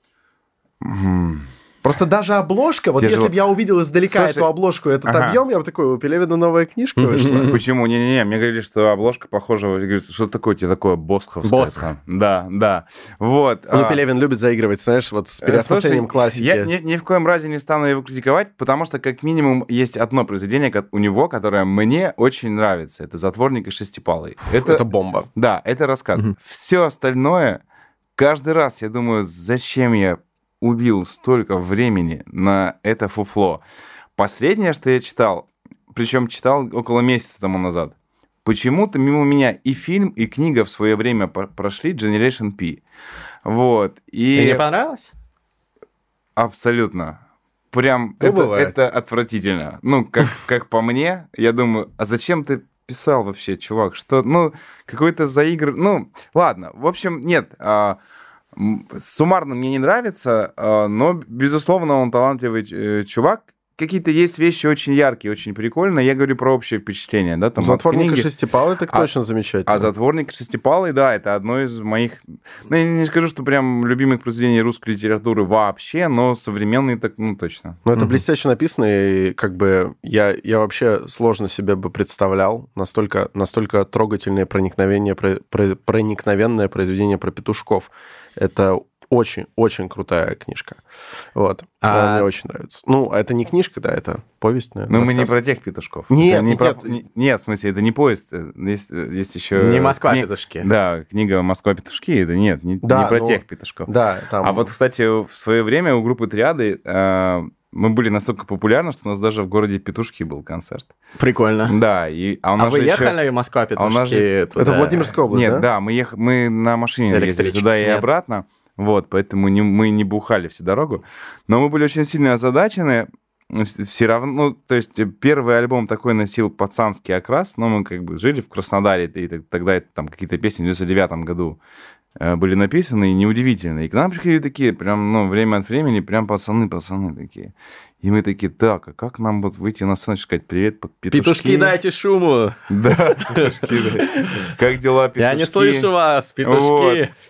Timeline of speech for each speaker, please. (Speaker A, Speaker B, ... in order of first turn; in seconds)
Speaker A: 0.8-1.5, 3.0-3.3, 4.1-4.5, 5.0-5.4, 7.5-14.0, 15.4-24.8, 25.3-27.6, 28.1-33.6, 34.1-42.8, 43.4-44.6, 46.4-47.2, 47.7-58.0, 58.5-68.3, 69.7-77.8, 94.9-103.9, 104.4-110.9, 111.7-113.1, 113.8-114.3, 115.3-131.6, 132.2-141.8, 142.7-145.9, 146.4-147.0
Speaker B: 1.8-7.6, 13.7-16.7, 24.5-25.3, 48.2-48.7, 67.6-69.9, 77.8-90.8, 91.3-95.3, 96.1-97.0, 102.8-104.7, 114.6-115.7
Speaker C: 7.0-7.6, 11.4-11.9, 44.3-45.1, 91.8-92.3, 99.5-100.7, 111.2-111.8, 112.6-115.1, 117.1-118.0, 141.1-144.5, 145.2-147.1